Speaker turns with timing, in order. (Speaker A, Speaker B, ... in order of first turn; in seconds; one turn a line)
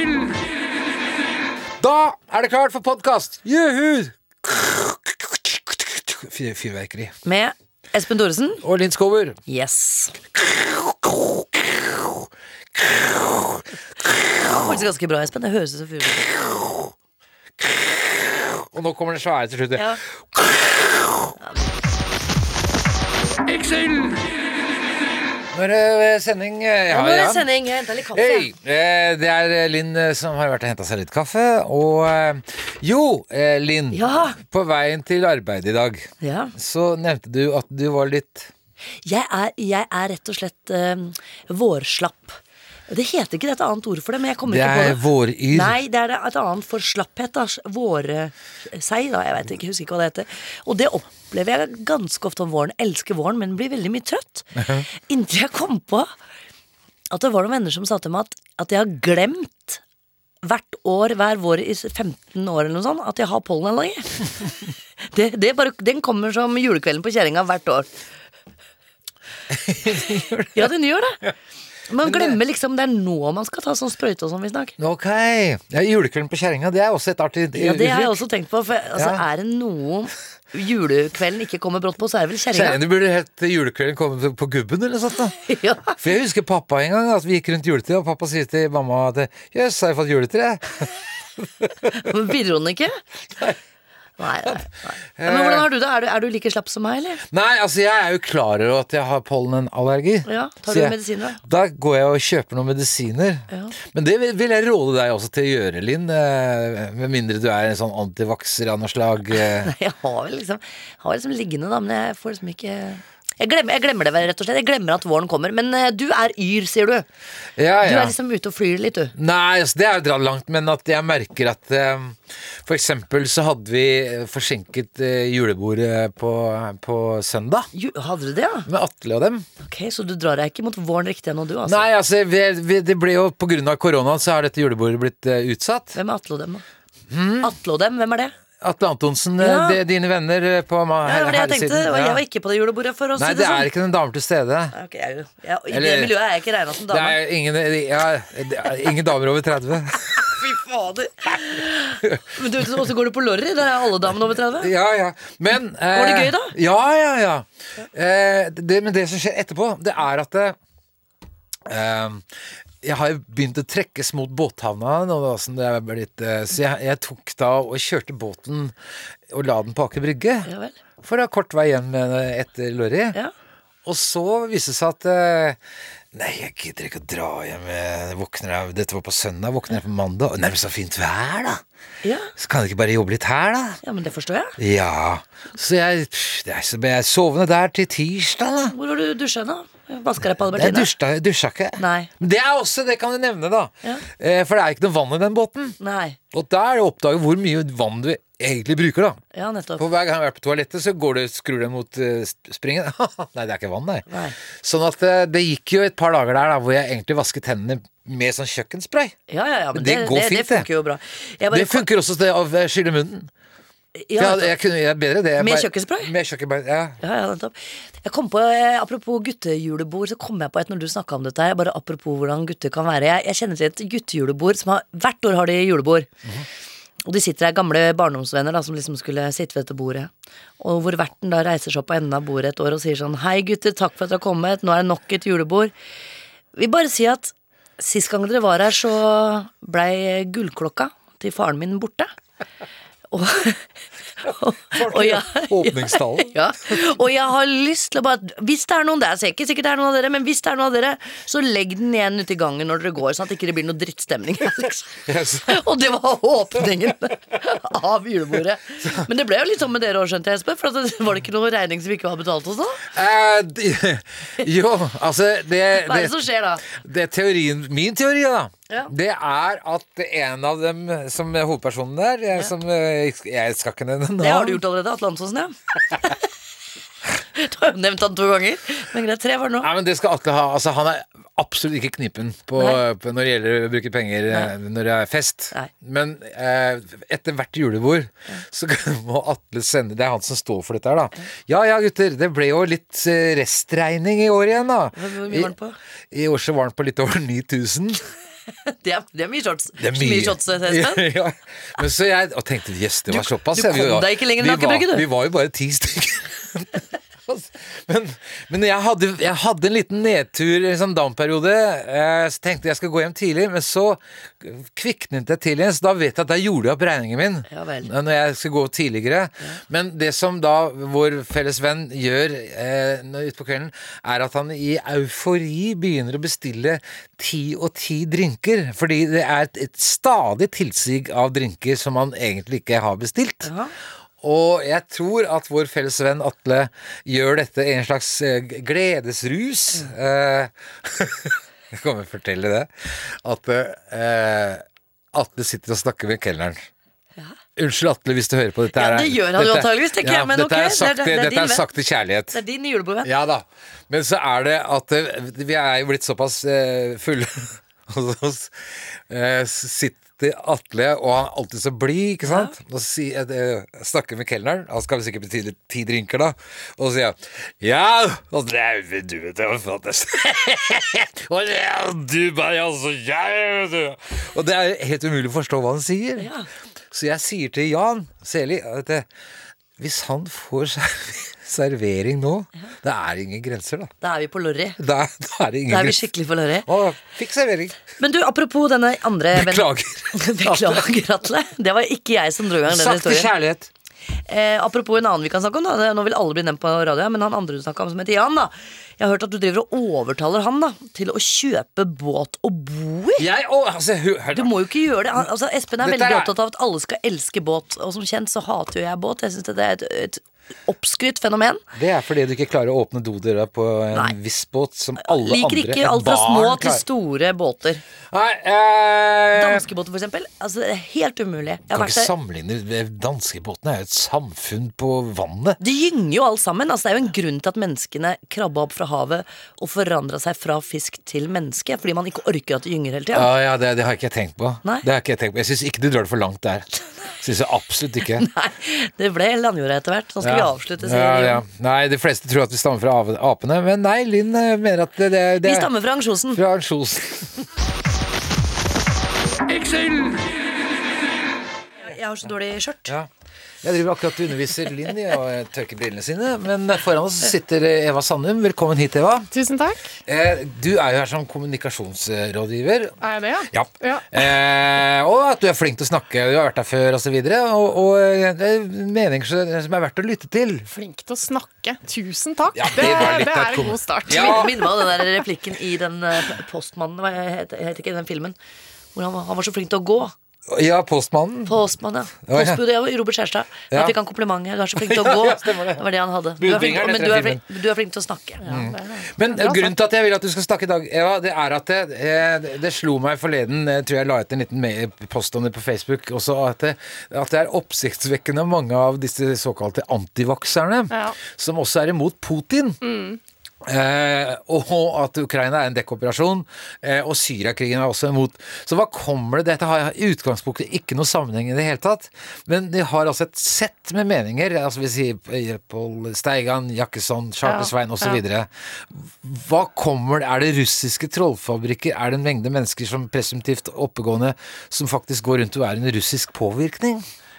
Speaker A: 1.8-7.1
Speaker B: 7.2-8.6
Speaker A: 8.6-9.4
Speaker B: 9.5-10.2
Speaker A: 10.3-14.4
Speaker B: 14.3-16.4
Speaker A: 17.6-21.3
Speaker B: 19.8-20.0
Speaker B: 21.4-21.7
Speaker A: 25.5-27.5
Speaker B: 26.9-28.5
Speaker A: 28.1-38.5
Speaker B: 33.9-34.4
Speaker B: 36.2-36.5
Speaker B: 39.0-42.4
Speaker B: 42.9-56.1
Speaker A: 44.5-45.8
Speaker A: 54.6-54.9
Speaker B: 57.1-59.8
Speaker B: 60.4-64.3
Speaker B: 65.0-67.9
Speaker A: 69.5-70.7
Speaker B: 70.5-71.2
Speaker B: 71.9-74.7
Speaker A: 72.0-72.4
Speaker A: 74.8-78.2
Speaker B: 77.5-82.8
Speaker A: 79.0-79.2
Speaker A: 82.5-85.4
Speaker B: 85.5-86.0
Speaker A: 86.0-91.9
Speaker B: 92.0-93.0
Speaker B: 94.2-97.2
Speaker A: 95.2-95.7
Speaker A: 97.3-109.7
Speaker B: 100.2-101.4
Speaker B: 103.5-103.7
Speaker B: 109.6-117.0
Speaker A: 117.6-118.1
Speaker B: 117.8-119.1
Speaker A: 119.2-127.7
Speaker B: 127.7-128.7
Speaker A: 128.7-129.4
Speaker B: 129.6-131.9
Speaker A: 131.6-136.0
Speaker B: 135.9-136.6
Speaker A: 137.1-137.5
Speaker B: 137.4-138.3
Speaker A: 138.6-142.2
Speaker B: 139.4-139.8
Speaker B: 141.0-143.7
Speaker A: 143.2-144.7
Speaker B: 144.7-147.2
Speaker A: 145.7-146.1
Speaker A: 146.9-150.3
Speaker B: 150.2-154.7
Speaker A: 154.6-160.6
Speaker B: 155.9-156.5
Speaker A: 161.7-162.2
Speaker A: 162.8-168.7
Speaker A: 169.3-170.5
Speaker B: 170.4-170.8
Speaker A: 171.0-173.2
Speaker A: 173.8-175.6
Speaker A: 176.1-181.6
Speaker B: 182.0-182.3
Speaker A: 182.3-183.8
Speaker B: 183.8-184.6
Speaker A: 184.6-188.7
Speaker B: 188.7-190.9
Speaker A: 190.5-195.8
Speaker B: 191.8-192.1
Speaker B: 195.8-196.2
Speaker A: 196.3-199.2
Speaker B: 199.3-199.8
Speaker A: 199.8-204.1
Speaker B: 204.1-204.3
Speaker A: 204.6-209.1
Speaker B: 209.3-211.9
Speaker A: 209.7-210.7
Speaker A: 211.5-213.3
Speaker B: 214.0-214.5
Speaker A: 214.2-217.0
Speaker B: 215.4-216.1
Speaker B: 217.0-226.1
Speaker B: 227.0-235.7
Speaker B: 236.5-242.1
Speaker B: 243.1-243.7
Speaker B: 244.2-262.8
Speaker A: 244.7-246.3
Speaker A: 255.1-255.6
Speaker A: 262.9-274.6
Speaker B: 265.7-266.6
Speaker B: 274.2-275.5
Speaker B: 277.3-279.7
Speaker A: 279.6-295.5
Speaker B: 294.9-295.8
Speaker A: 296.1-298.0
Speaker B: 298.6-301.0
Speaker A: 299.8-333.5
Speaker B: 303.1-305.1
Speaker B: 317.5-317.9
Speaker B: 333.4-333.7
Speaker A: 334.2-346.6
Speaker A: 347.6-352.4
Speaker B: 348.7-351.6
Speaker B: 352.3-353.1
Speaker A: 353.0-358.5
Speaker A: 359.1-376.3
Speaker B: 362.2-362.5
Speaker B: 376.2-376.5
Speaker A: 376.9-379.1
Speaker A: 379.8-383.9
Speaker B: 384.0-384.8
Speaker A: 384.8-386.1
Speaker B: 385.7-386.7
Speaker A: 386.6-387.8
Speaker B: 388.0-393.3
Speaker A: 389.3-390.9
Speaker A: 392.6-393.7
Speaker B: 394.3-403.2
Speaker A: 403.2-404.5
Speaker B: 404.3-411.6
Speaker A: 405.8-406.3
Speaker A: 411.7-416.8
Speaker B: 415.0-417.8
Speaker A: 418.1-419.6
Speaker B: 419.3-422.1
Speaker A: 421.7-425.6
Speaker B: 425.6-433.3
Speaker A: 433.1-436.7
Speaker A: 437.2-438.3
Speaker B: 438.2-441.4
Speaker A: 440.2-445.7
Speaker B: 445.4-446.4
Speaker A: 446.3-447.4
Speaker B: 451.8-452.9
Speaker A: 453.6-459.3
Speaker C: 459.3-459.8
Speaker A: 460.1-463.0
Speaker C: 463.0-464.0
Speaker A: 463.5-470.7
Speaker C: 470.7-474.6
Speaker A: 472.5-474.6
Speaker B: 474.1-478.3
Speaker B: 478.9-480.1
Speaker A: 480.5-481.6
Speaker B: 481.4-488.4
Speaker A: 482.2-482.6
Speaker A: 483.7-483.9
Speaker A: 484.8-485.8
Speaker A: 486.4-487.4
Speaker C: 488.4-489.7
Speaker A: 488.4-502.8
Speaker C: 500.9-501.1
Speaker C: 502.8-503.2
Speaker A: 503.6-527.0
Speaker C: 517.4-518.2